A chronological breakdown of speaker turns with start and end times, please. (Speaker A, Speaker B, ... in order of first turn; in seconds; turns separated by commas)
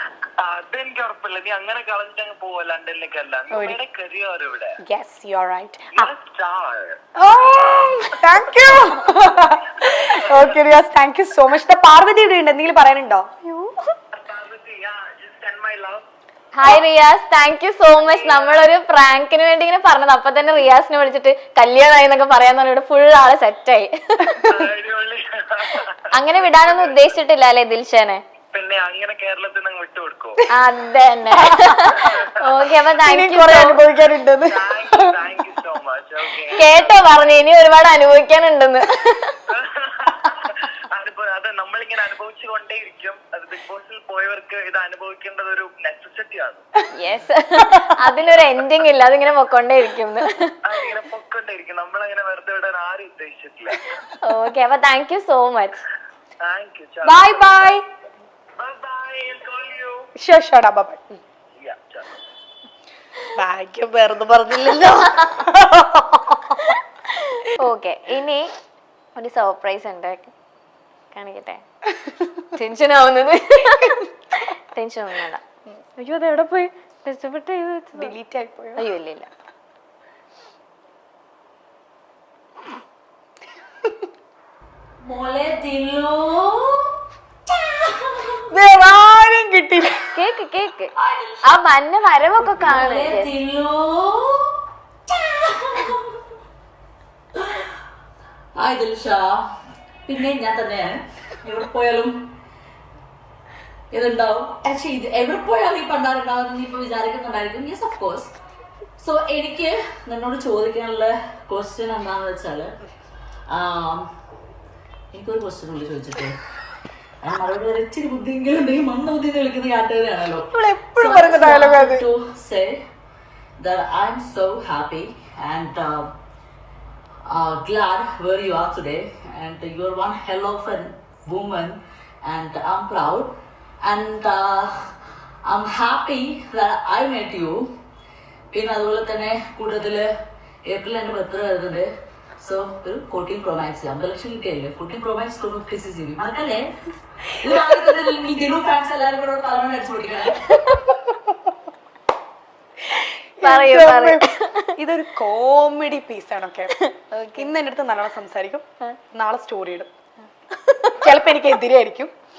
Speaker A: 0.4-4.8, Speaker B: 3.5-3.8, Speaker B: 4.8-6.1, Speaker A: 5.9-7.0, Speaker B: 7.2-13.5, Speaker A: 9.8-10.6, Speaker C: 13.5-13.7, Speaker A: 14.1-16.1, Speaker C: 16.5-24.2, Speaker A: 17.9-18.8, Speaker B: 24.2-24.7, Speaker A: 24.4-27.1, Speaker C: 26.1-28.2, Speaker A: 28.5-30.4, Speaker C: 30.5-33.8, Speaker B: 31.3-32.2, Speaker A: 31.8-32.7, Speaker B: 33.0-35.1, Speaker A: 34.4-37.4, Speaker C: 36.5-39.3, Speaker A: 39.5-46.7, Speaker C: 46.9-50.6, Speaker B: 47.6-48.1, Speaker A: 50.6-54.0, Speaker C: 54.2-55.8, Speaker A: 56.4-57.8, Speaker B: 57.0-57.8, Speaker A: 58.6-60.1, Speaker B: 60.2-61.0, Speaker A: 61.5-62.1, Speaker B: 63.3-67.4, Speaker C: 67.4-68.5, Speaker C: 69.2-70.3, Speaker C: 71.1-71.6, Speaker C: 72.5-75.4, Speaker C: 76.0-78.1, Speaker B: 77.9-78.8, Speaker C: 78.8-79.3, Speaker D: 85.0-88.5, Speaker B: 88.5-90.2, Speaker C: 90.1-93.3, Speaker D: 91.0-91.4, Speaker D: 92.4-96.2, Speaker D: 97.3-97.8, Speaker D: 98.5-99.5, Speaker D: 100.0-102.2, Speaker D: 103.9-108.3, Speaker D: 109.0-112.8, Speaker D: 113.5-114.1, Speaker D: 115.1-116.4, Speaker D: 117.2-122.8, Speaker B: 120.5-122.1, Speaker D: 123.6-126.1, Speaker D: 127.3-137.7, Speaker D: 138.5-140.1, Speaker D: 140.6-146.7, Speaker D: 147.2-150.9, Speaker B: 151.0-151.3, Speaker B: 152.9-154.2, Speaker C: 153.4-154.7, Speaker B: 154.8-159.9, Speaker C: 156.7-157.5, Speaker C: 160.5-161.1, Speaker B: 160.9-162.1